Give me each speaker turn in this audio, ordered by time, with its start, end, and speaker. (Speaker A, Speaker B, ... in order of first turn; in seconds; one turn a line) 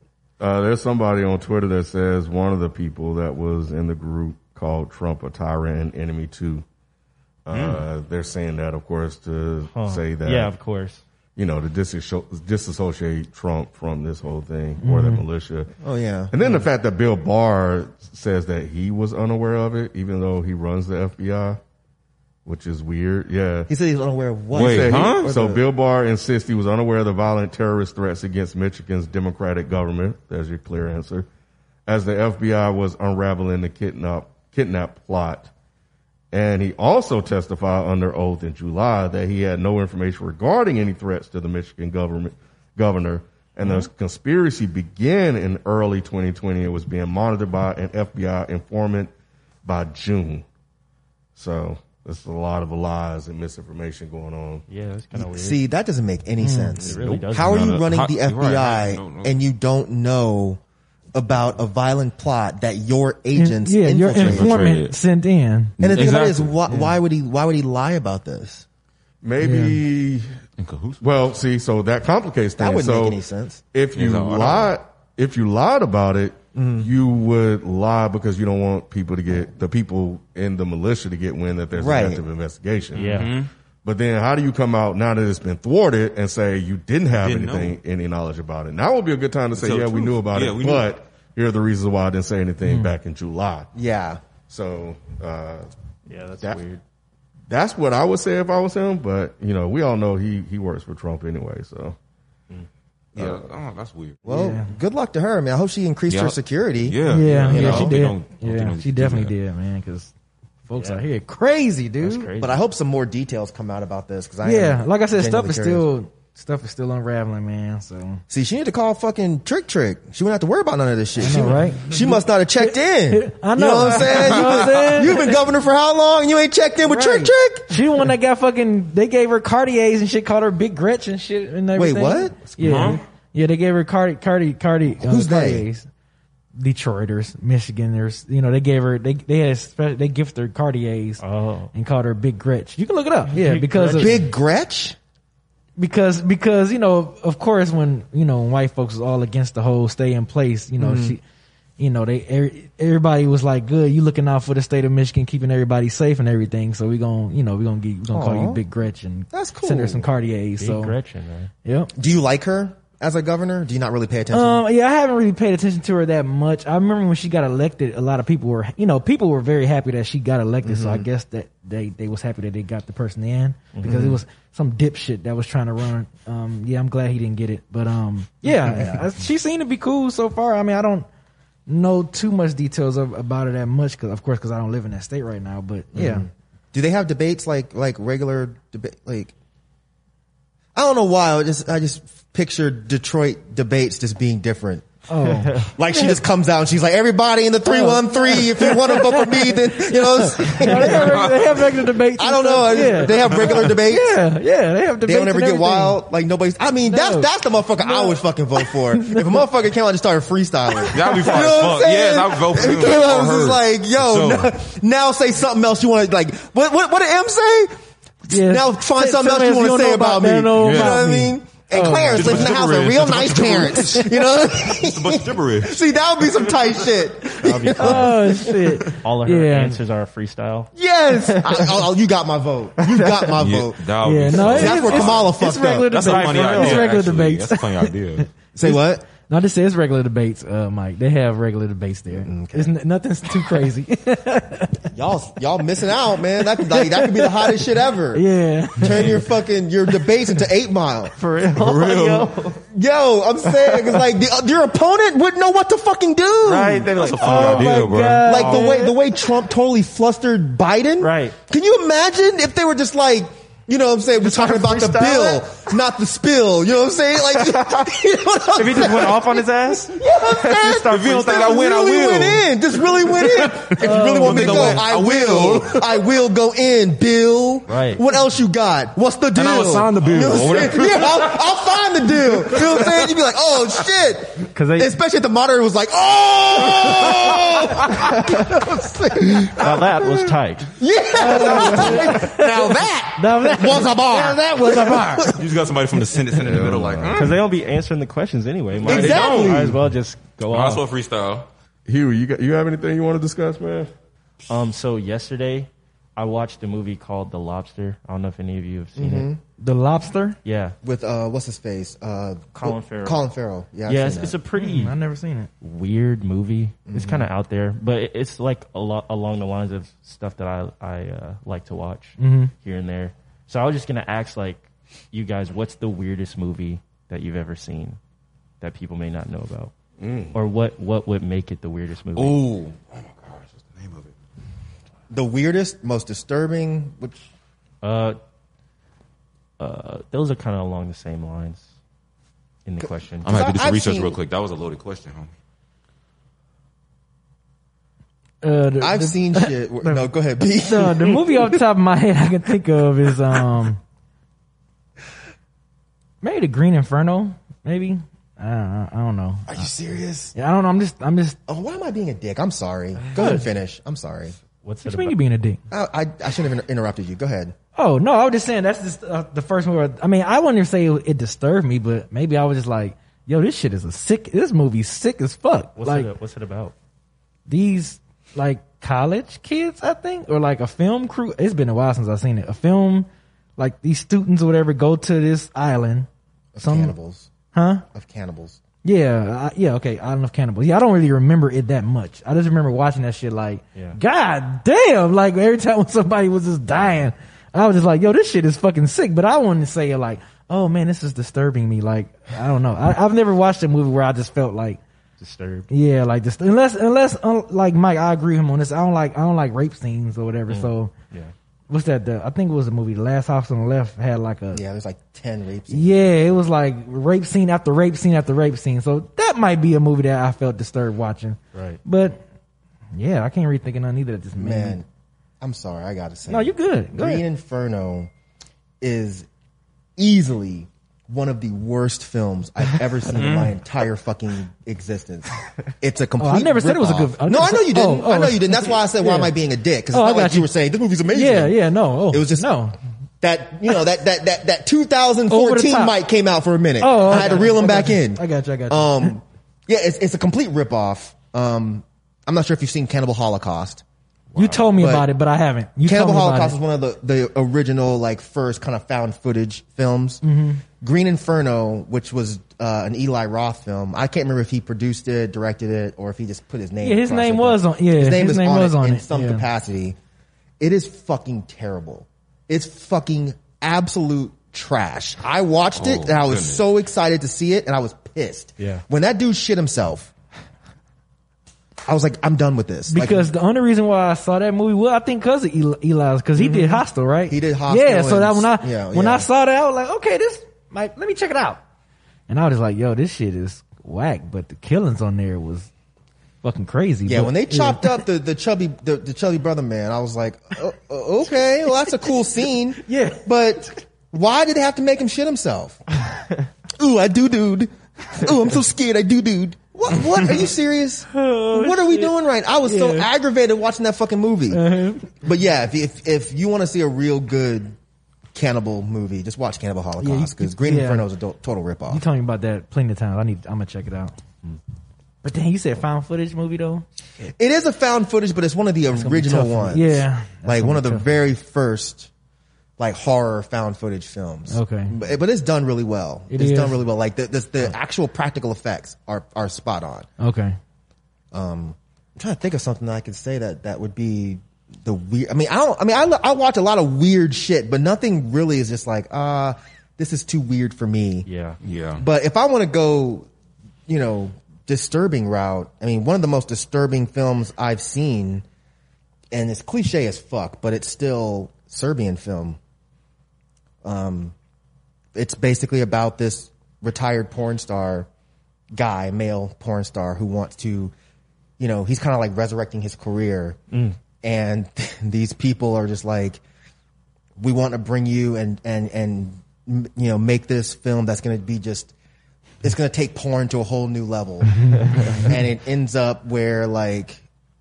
Speaker A: 0.4-6.6
Speaker A: 7.5-10.5
Speaker B: 7.5-7.8
Speaker C: 9.7-11.0
Speaker A: 11.3-15.7
Speaker D: 14.8-15.2
Speaker E: 15.8-16.3
Speaker A: 16.3-21.6
Speaker C: 16.4-16.7
Speaker A: 22.4-23.7
Speaker E: 23.7-25.6
Speaker B: 24.5-25.3
Speaker A: 24.5-31.3
Speaker A: 31.9-35.5
Speaker A: 36.3-49.1
Speaker A: 49.6-50.4
Speaker A: 51.4-54.6
Speaker C: 54.7-55.6
Speaker E: 55.1-60.6
Speaker D: 56.4-56.8
Speaker C: 56.8-57.7
Speaker A: 56.9-57.4
Speaker B: 57.4-59.4
Speaker E: 61.1-64.5
Speaker D: 63.3-65.8
Speaker B: 64.1-65.0
Speaker B: 65.8-66.5
Speaker E: 65.8-68.6
Speaker D: 66.7-67.0
Speaker A: 69.2-70.3
Speaker D: 69.4-69.8
Speaker B: 70.6-71.0
Speaker A: 71.0-73.2
Speaker E: 72.6-73.6
Speaker A: 73.7-93.7
Speaker B: 73.9-74.8
Speaker E: 76.5-76.9
Speaker E: 81.7-82.2
Speaker C: 82.9-83.3
Speaker B: 83.1-83.5
Speaker B: 87.1-87.8
Speaker B: 89.5-90.9
Speaker D: 92.6-92.9
Speaker E: 93.7-94.2
Speaker A: 94.4-95.7
Speaker C: 96.1-96.8
Speaker A: 97.5-102.0
Speaker B: 103.1-104.2
Speaker A: 103.2-103.4
Speaker E: 104.2-108.0
Speaker D: 104.2-104.7
Speaker B: 106.1-109.3
Speaker D: 107.0-110.1
Speaker D: 110.7-112.3
Speaker C: 110.8-111.0
Speaker C: 112.0-112.7
Speaker E: 112.4-115.8
Speaker D: 114.4-118.2
Speaker E: 118.3-127.8
Speaker D: 121.2-125.4
Speaker D: 126.8-135.9
Speaker E: 131.7-132.9
Speaker B: 132.6-133.0
Speaker E: 135.0-135.6
Speaker D: 136.6-141.2
Speaker C: 141.2-141.7
Speaker D: 141.7-144.2
Speaker C: 143.3-144.2
Speaker E: 143.9-144.9
Speaker D: 145.8-151.2
Speaker E: 150.8-151.2
Speaker D: 151.8-160.9
Speaker E: 158.1-158.6
Speaker E: 159.3-160.1
Speaker C: 160.6-161.5
Speaker D: 161.6-161.9
Speaker E: 161.9-164.6
Speaker D: 164.3-181.1
Speaker E: 170.6-171.1
Speaker E: 173.8-174.2
Speaker E: 178.5-179.0
Speaker D: 181.7-186.3
Speaker E: 185.9-189.3
Speaker E: 190.7-194.9
Speaker D: 195.1-195.7
Speaker C: 195.2-195.7
Speaker E: 195.7-201.4
Speaker D: 197.6-206.0
Speaker C: 200.7-201.0
Speaker B: 201.1-201.8
Speaker E: 202.2-204.2
Speaker E: 205.0-217.7
Speaker D: 206.8-207.3
Speaker D: 207.8-209.4
Speaker D: 210.8-211.4
Speaker B: 210.9-214.5
Speaker E: 218.3-228.4
Speaker D: 218.3-222.5
Speaker B: 220.6-221.0
Speaker B: 222.1-225.8
Speaker C: 227.4-228.4
Speaker D: 227.8-229.8
Speaker C: 228.9-231.8
Speaker E: 230.7-236.0
Speaker C: 232.8-233.3
Speaker B: 233.4-235.3
Speaker D: 234.0-244.8
Speaker B: 235.9-238.3
Speaker C: 236.0-236.8
Speaker E: 238.5-239.0
Speaker E: 242.1-242.8
Speaker E: 244.8-248.2
Speaker D: 246.4-249.2
Speaker E: 248.8-251.1
Speaker C: 251.1-252.6
Speaker B: 251.5-252.3
Speaker E: 252.7-257.1
Speaker C: 253.4-254.1
Speaker C: 256.4-259.0
Speaker B: 256.9-258.4
Speaker D: 257.2-258.9
Speaker E: 258.2-289.9
Speaker C: 261.0-261.4
Speaker C: 264.2-265.7
Speaker C: 267.3-267.9
Speaker C: 268.5-271.7
Speaker B: 270.9-272.5
Speaker B: 273.2-275.9
Speaker D: 273.8-274.8
Speaker C: 277.7-278.0
Speaker B: 279.4-281.5
Speaker B: 282.4-283.0
Speaker C: 284.5-284.9
Speaker C: 287.9-288.2
Speaker C: 289.5-290.7
Speaker A: 289.6-290.1
Speaker E: 290.8-295.4
Speaker D: 291.2-292.6
Speaker C: 291.5-292.0
Speaker D: 293.1-295.3
Speaker B: 295.3-297.4
Speaker A: 296.3-297.4
Speaker C: 297.1-300.8
Speaker B: 298.8-299.7
Speaker E: 298.8-299.8
Speaker B: 300.5-301.5
Speaker A: 301.9-303.9
Speaker C: 304.5-309.3
Speaker E: 308.9-309.4
Speaker D: 309.6-310.4
Speaker C: 310.4-310.7
Speaker E: 310.8-314.4
Speaker C: 312.5-313.3
Speaker C: 313.8-314.9
Speaker D: 314.6-315.5
Speaker C: 315.6-328.0
Speaker E: 316.9-317.3
Speaker D: 322.2-322.5
Speaker C: 328.6-329.7
Speaker A: 330.0-330.4
Speaker C: 330.3-332.4
Speaker B: 332.1-334.1
Speaker E: 335.1-337.3
Speaker C: 337.8-338.2
Speaker C: 339.6-341.7
Speaker C: 342.6-343.3
Speaker E: 342.8-344.2
Speaker B: 343.2-345.3
Speaker D: 348.4-353.8
Speaker E: 348.8-351.3
Speaker D: 356.2-359.6
Speaker E: 359.5-360.3
Speaker D: 360.3-361.4
Speaker E: 361.5-364.4
Speaker C: 363.0-363.4
Speaker D: 363.1-363.4
Speaker C: 364.6-365.2
Speaker D: 364.8-365.6
Speaker E: 365.7-367.5
Speaker D: 367.8-376.1
Speaker C: 375.8-376.7
Speaker D: 377.5-386.1
Speaker E: 386.5-387.3
Speaker D: 386.6-386.9
Speaker D: 387.5-387.8
Speaker E: 387.9-388.6
Speaker D: 388.8-404.8
Speaker C: 405.2-405.7
Speaker D: 405.7-410.9
Speaker C: 410.5-411.3
Speaker D: 411.7-414.6
Speaker E: 414.5-416.1
Speaker D: 415.7-422.2
Speaker C: 421.5-421.8
Speaker D: 422.9-424.8
Speaker E: 424.4-424.9
Speaker E: 425.4-428.1
Speaker D: 426.3-427.2
Speaker E: 428.8-429.2
Speaker E: 430.0-442.5
Speaker B: 433.1-433.5
Speaker D: 436.2-439.3
Speaker D: 439.9-440.5
Speaker D: 441.1-442.7
Speaker E: 443.2-453.8
Speaker D: 445.3-446.0
Speaker D: 446.8-449.1
Speaker D: 454.3-456.6
Speaker C: 454.4-454.7
Speaker E: 454.8-455.1
Speaker E: 455.8-460.2
Speaker D: 460.2-460.6
Speaker E: 460.8-469.9
Speaker D: 466.8-469.4
Speaker E: 470.6-480.1
Speaker B: 475.7-476.6
Speaker C: 478.6-478.8
Speaker E: 481.8-483.3
Speaker D: 482.9-491.6
Speaker E: 486.3-489.3
Speaker D: 492.3-495.7
Speaker D: 496.4-498.0
Speaker E: 497.0-505.8
Speaker D: 502.8-503.2
Speaker E: 506.8-517.8
Speaker D: 511.1-512.1
Speaker D: 512.6-513.1
Speaker D: 514.5-515.1
Speaker E: 518.3-522.0
Speaker D: 520.0-521.0
Speaker D: 521.9-524.1
Speaker D: 525.2-526.8
Speaker E: 527.4-532.1
Speaker D: 528.9-531.1
Speaker E: 532.8-540.1
Speaker D: 534.5-534.9
Speaker D: 536.3-536.8
Speaker D: 540.2-540.5
Speaker E: 541.3-551.3
Speaker C: 551.2-551.6
Speaker B: 551.6-552.0
Speaker E: 552.0-553.3
Speaker E: 553.9-558.4
Speaker E: 559.3-562.6
Speaker E: 563.8-564.3
Speaker E: 565.1-568.1
Speaker E: 568.7-570.9
Speaker E: 571.6-573.6
Speaker E: 574.2-576.4
Speaker E: 577.4-581.9
Speaker E: 582.6-587.2
Speaker D: 584.6-585.0
Speaker C: 584.7-585.3